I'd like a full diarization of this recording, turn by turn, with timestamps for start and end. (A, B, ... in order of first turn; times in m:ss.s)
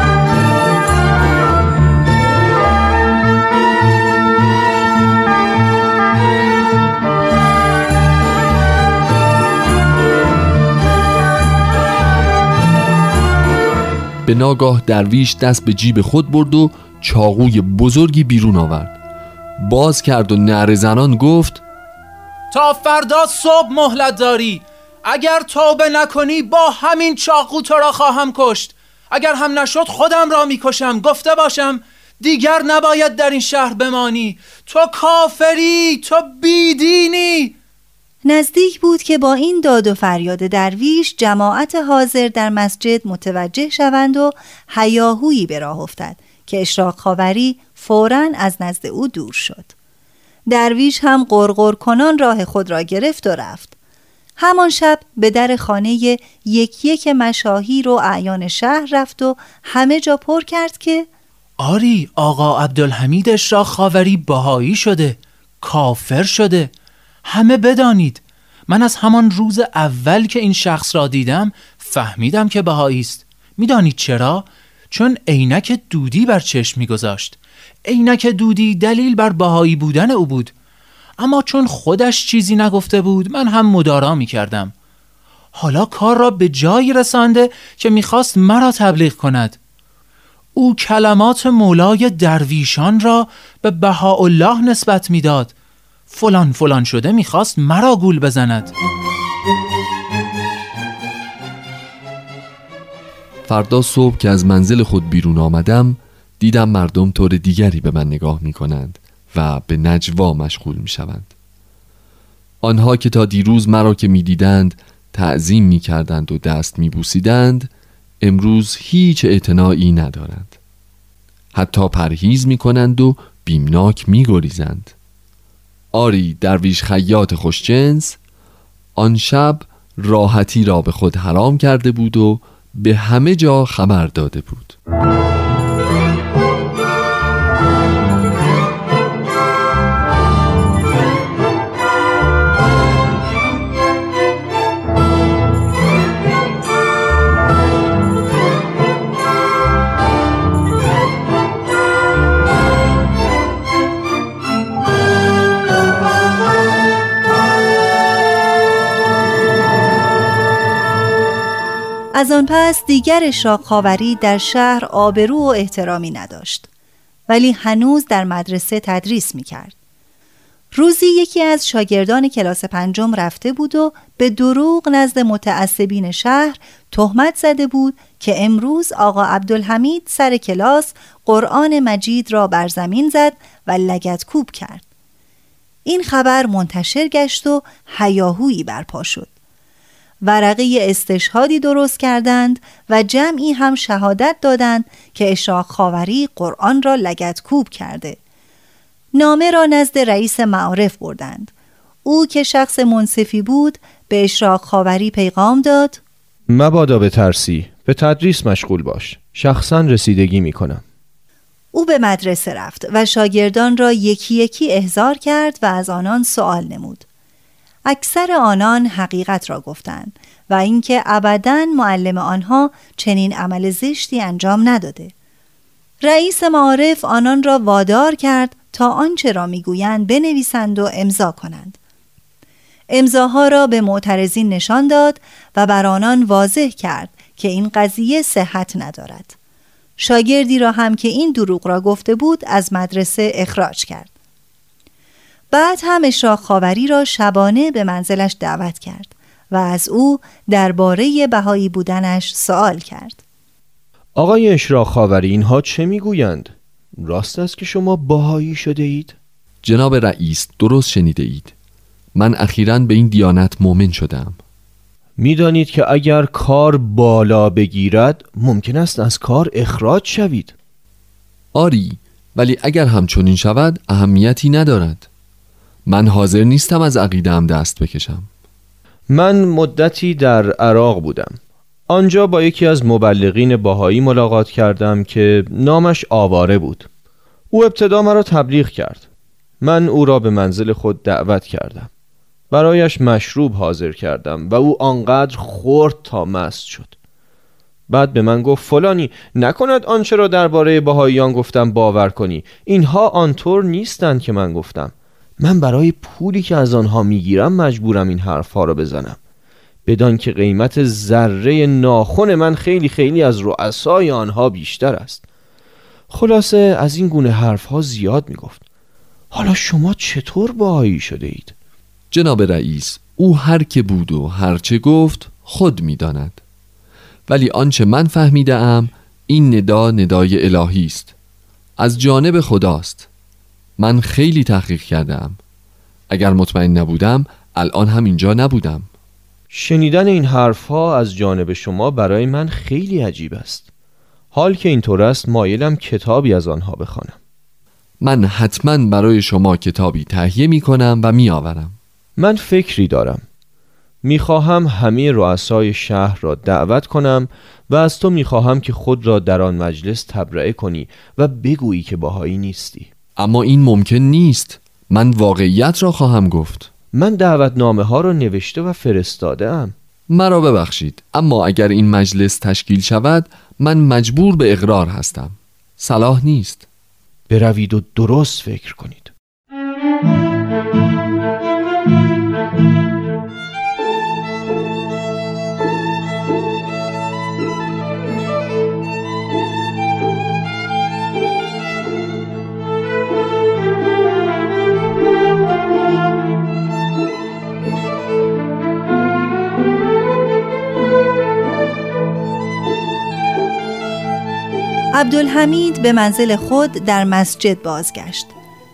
0:14.2-0:18.9 A
0:19.6-0:21.6 A
0:22.5-0:37.5 B
0:38.2-0:49.7 C
0:50.5-0:53.7 C
0:54.4-1:01.1 C
1:01.6-1:06.7 B
1:07.2-1:20.5 B
1:21.2-1:24.7 B
1:25.5-1:29.6 B
1:30.5-1:35.5 B
1:36.1-1:38.7 B
1:43.4-1:51.3 A
1:52.6-2:00.6 A
2:01.5-2:04.9 A
2:05.9-2:08.2 A
2:09.0-2:14.8 A
2:42.1-2:46.7 C
2:47.3-2:49.7 C
2:50.7-3:04.8 C
3:05.8-3:09.3 C
3:10.2-3:18.2 C
3:19.1-3:21.5 C
3:22.0-3:26.0 C
3:26.5-3:30.8 D
3:31.7-3:37.0 C
3:37.8-3:45.1 C
3:46.0-3:51.8 C
3:52.9-3:59.3 C
4:00.0-4:04.1 C
4:05.5-4:13.2 C
4:14.2-4:19.2 D
4:19.6-4:21.5 A
4:22.1-4:24.4 A
4:25.2-4:30.5 D
4:31.5-4:35.1 A
4:35.8-4:38.3 A
4:39.1-4:46.9 D
4:47.5-4:49.0 D
4:49.6-4:51.9 D
4:52.5-4:56.9 D
4:57.9-5:09.2 D
5:09.8-5:15.2 D
5:16.1-5:18.6 D
5:19.3-5:21.5 D
5:22.1-5:26.4 A
5:27.3-5:31.1 A
5:31.8-5:33.1 A
5:33.8-5:35.4 A
5:36.1-5:38.9 A
5:39.5-5:43.7 D
5:44.3-5:47.2 D
5:48.0-5:51.8 A
5:52.2-5:53.2 D
5:54.0-6:02.9 D
6:03.2-6:06.7 A
6:06.9-6:09.7 D
6:10.1-6:16.6 A
6:17.3-6:19.1 D
6:44.9-6:48.3 C